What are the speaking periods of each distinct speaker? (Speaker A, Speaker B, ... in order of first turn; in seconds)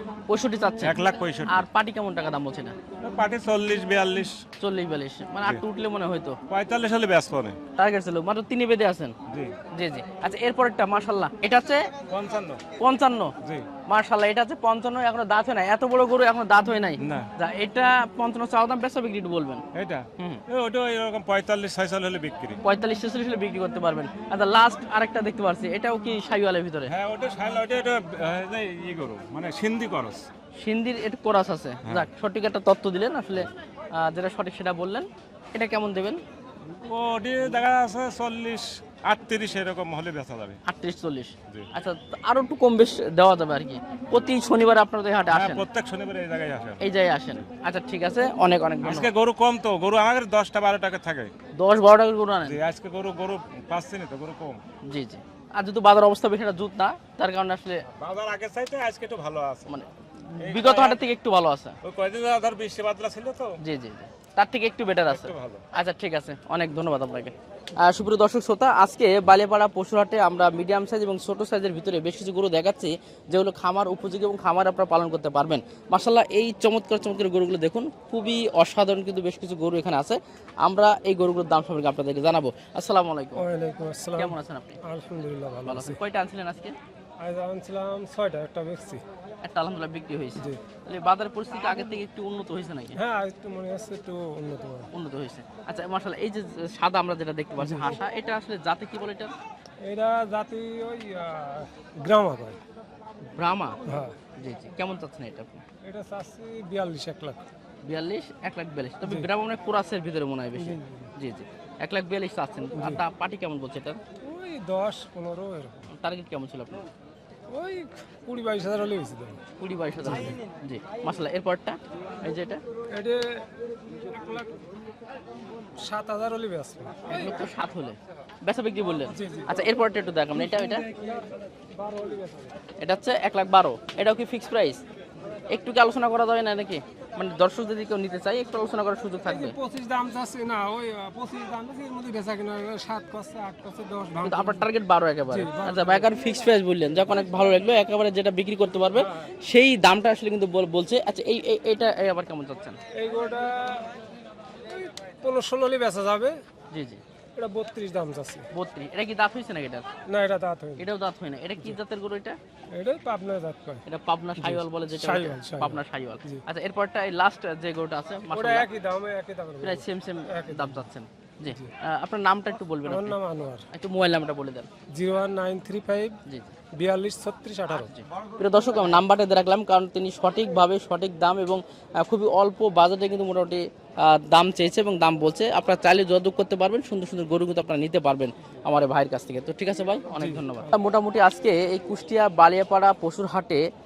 Speaker A: 0.3-1.0, 1.5-2.8, 4.6-6.4, 7.8-9.2, 9.8-11.9, 12.8-13.3, 13.9-19.6, 22.6-26.9, 30.6-36.2, 40.7-45.7, 46.8-49.1, 51.6-52.6, 54.9-57.8, 59.7-61.8, 63.6-83.5, 84.2-84.8, 85.7-86.8, 89.4-93.0, 94.9-99.3, 103.3-103.8, 104.4-105.6, 107.8-114.0, 116.0-116.9, 119.6-122.6, 127.1-130.9, 132.8-134.8, 135.5-139.6, 144.2-152.8, 156.7-157.0, 158.5-159.8, 160.8-162.4, 163.9-168.7, 169.6-173.2, 173.7-174.7, 177.7-193.6
Speaker B: 0.8-1.7, 3.0-4.4, 6.5-7.6, 12.1-12.6, 19.7-22.6, 26.9-30.3, 36.9-40.6, 45.3-46.8, 48.8-51.3, 52.5-54.6, 58.0-59.7, 60.4-61.0, 61.8-63.5, 65.1-65.6
Speaker C: 83.4-84.3, 84.8-86.0, 87.2-89.0, 93.0-94.9, 97.6-98.0, 99.8-102.6, 103.9-104.2, 105.8-107.4, 110.7-111.1, 114.3-115.8, 117.5-119.4, 120.1-120.4, 122.9-124.6, 125.8-127.2, 129.1-129.6, 130.4-132.5, 139.3-144.5, 145.3-146.1, 149.0-149.2, 153.0-153.9, 154.7-156.3, 157.4-158.4, 160.1-160.8, 162.8-163.8, 164.4-166.4, 168.3-170.8, 172.9-173.6, 174.9-176.2, 176.8-177.9